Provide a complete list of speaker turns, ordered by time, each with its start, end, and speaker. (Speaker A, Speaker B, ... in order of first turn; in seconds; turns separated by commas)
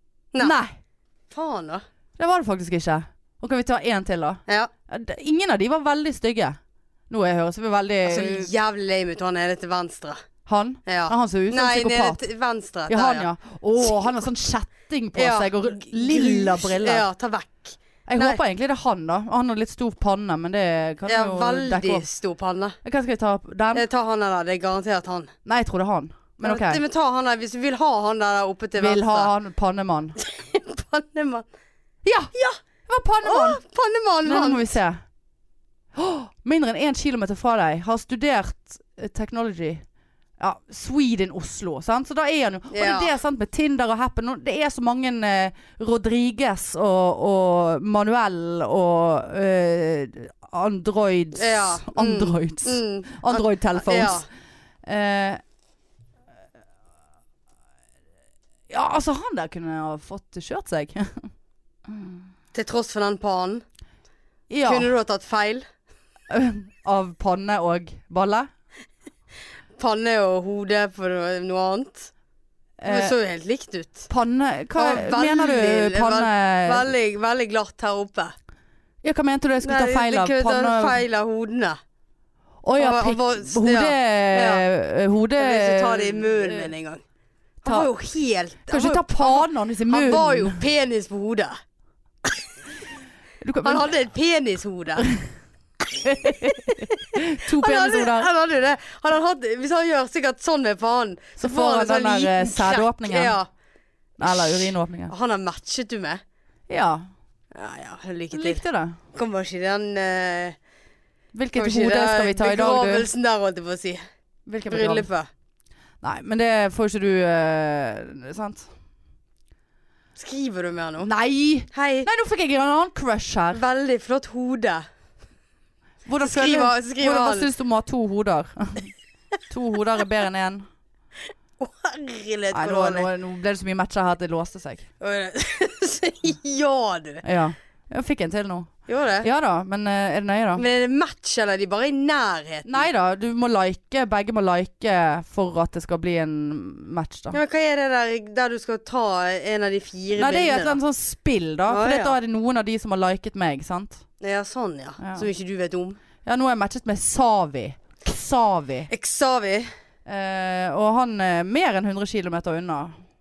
Speaker A: 0.4-0.7, Speaker B: 1.3-1.8, Speaker A: 2.2-6.6, Speaker A: 7.1-8.5, Speaker B: 8.0-10.2, Speaker A: 10.4-12.2, Speaker B: 10.8-13.3, Speaker A: 12.9-17.1, Speaker B: 15.1-18.4, Speaker A: 18.1-22.0, Speaker B: 21.1-22.8, Speaker A: 22.8-23.8, Speaker B: 23.7-25.3, Speaker A: 25.4-26.8, Speaker B: 26.4-29.3, Speaker A: 28.8-30.1, Speaker B: 30.2-31.4, Speaker A: 32.0-32.3, Speaker B: 32.3-32.6, Speaker A: 32.9-33.6, Speaker B: 33.2-34.7, Speaker A: 34.2-35.0, Speaker A: 35.9-39.8, Speaker A: 40.4-54.2, Speaker B: 42.7-43.1, Speaker B: 51.4-54.3, Speaker A: 54.8-55.4, Speaker A: 58.7-61.3, Speaker A: 61.9-62.2, Speaker B: 62.5-63.6, Speaker A: 64.5-64.9, Speaker B: 64.6-65.7, Speaker A: 66.3-68.5, Speaker B: 69.8-72.1, Speaker A: 72.8-73.1, Speaker B: 72.9-74.1, Speaker A: 74.1-76.8, Speaker B: 74.8-78.3, Speaker A: 79.0-81.0, Speaker B: 79.6-81.8, Speaker A: 82.6-86.7, Speaker B: 82.8-84.6, Speaker B: 85.4-87.0, Speaker B: 87.6-91.6, Speaker A: 88.7-90.6, Speaker A: 93.4-93.9, Speaker B: 93.6-95.1, Speaker B: 95.9-103.5, Speaker A: 96.0-98.3, Speaker A: 101.4-103.3, Speaker A: 104.2-105.1, Speaker B: 104.2-106.2, Speaker A: 106.7-107.1, Speaker B: 107.5-108.6, Speaker A: 108.3-109.0, Speaker B: 109.1-110.5, Speaker A: 111.3-113.1, Speaker B: 111.5-114.0, Speaker A: 114.5-115.1, Speaker B: 114.7-115.3, Speaker A: 116.0-118.7, Speaker B: 120.2-121.1, Speaker A: 121.0-123.6, Speaker B: 121.7-122.1, Speaker B: 123.5-124.8, Speaker A: 126.0-128.9, Speaker B: 126.2-127.5, Speaker A: 129.5-130.7, Speaker B: 131.6-133.1, Speaker A: 132.5-134.8, Speaker B: 135.0-137.2, Speaker A: 137.2-140.6, Speaker B: 138.9-139.3, Speaker B: 140.6-142.9, Speaker A: 142.7-147.4, Speaker B: 147.3-150.8, Speaker A: 150.2-154.0, Speaker B: 151.7-152.2, Speaker B: 154.2-156.0, Speaker A: 155.0-155.3, Speaker A: 156.2-158.9, Speaker B: 158.9-159.7, Speaker A: 160.1-163.0